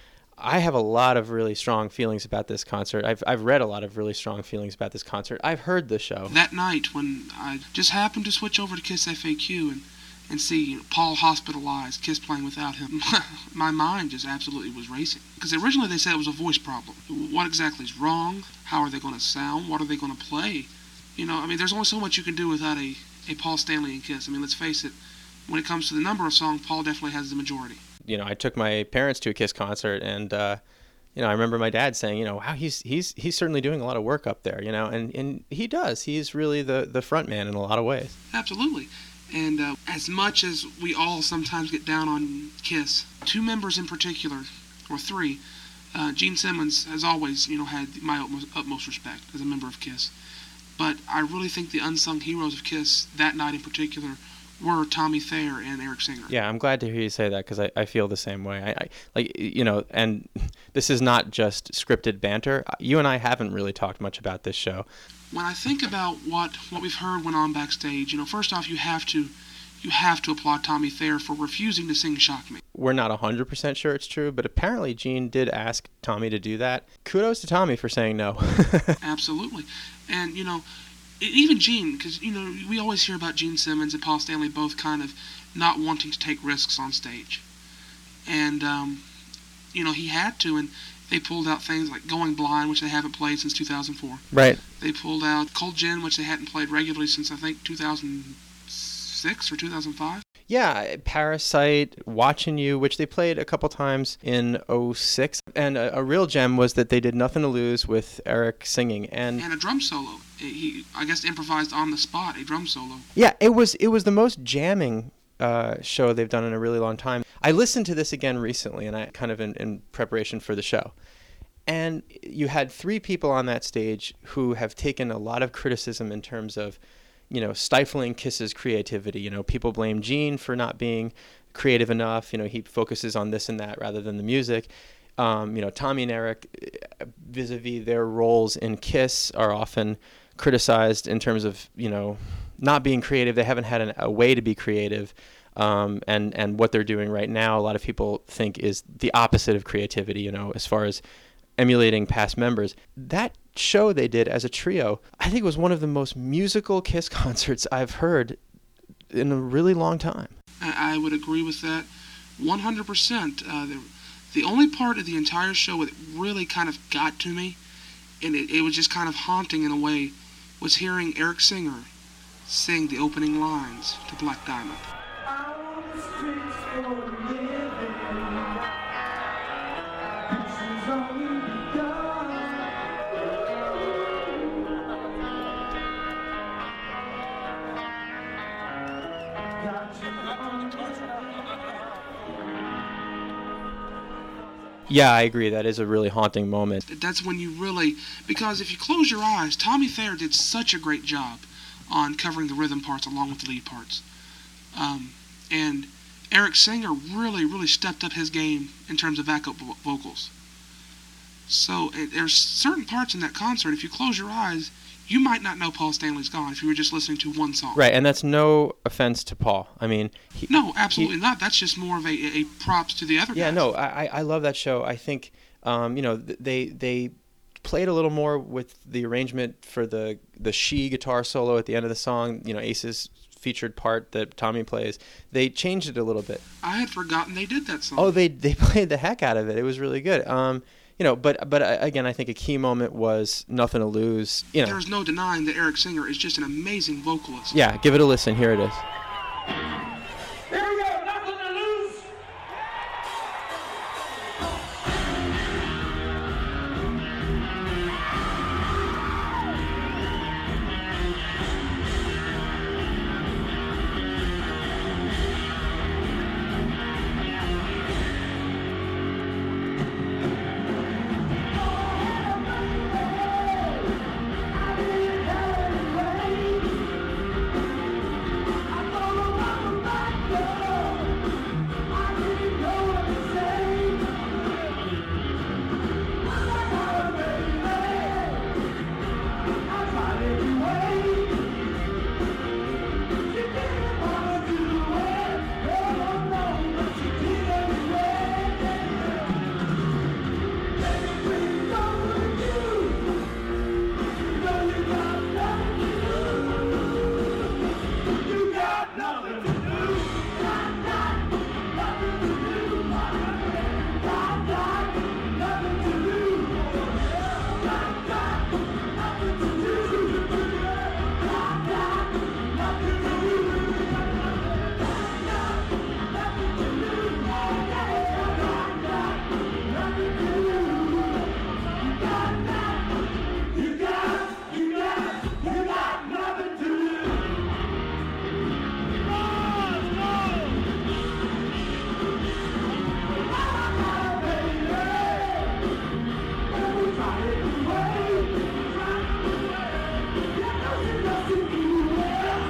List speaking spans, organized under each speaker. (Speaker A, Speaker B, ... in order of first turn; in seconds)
Speaker A: 0.4-6.4, 28.0-30.6, 31.1-38.1, 56.3-64.9, 72.7-79.0, 94.3-94.6, 100.5-109.5, 113.1-120.9, 121.7-126.8, 127.3-151.0, 151.6-158.4, 159.1-160.3, 194.9-196.8, 217.7-221.1, 223.3-236.4, 238.0-244.8, 247.5-248.8
Speaker B: 6.3-25.0, 25.5-27.8, 38.3-45.4, 45.9-50.1, 50.8-56.3, 65.3-72.6, 79.0-80.6, 81.2-87.4, 88.2-89.0, 89.7-94.2, 94.8-100.2, 109.4-113.0, 160.6-167.6, 168.2-171.9, 172.4-174.8, 196.8-204.0, 204.7-210.3, 211.5-217.8, 220.5-223.6, 236.6-238.2, 244.6-247.6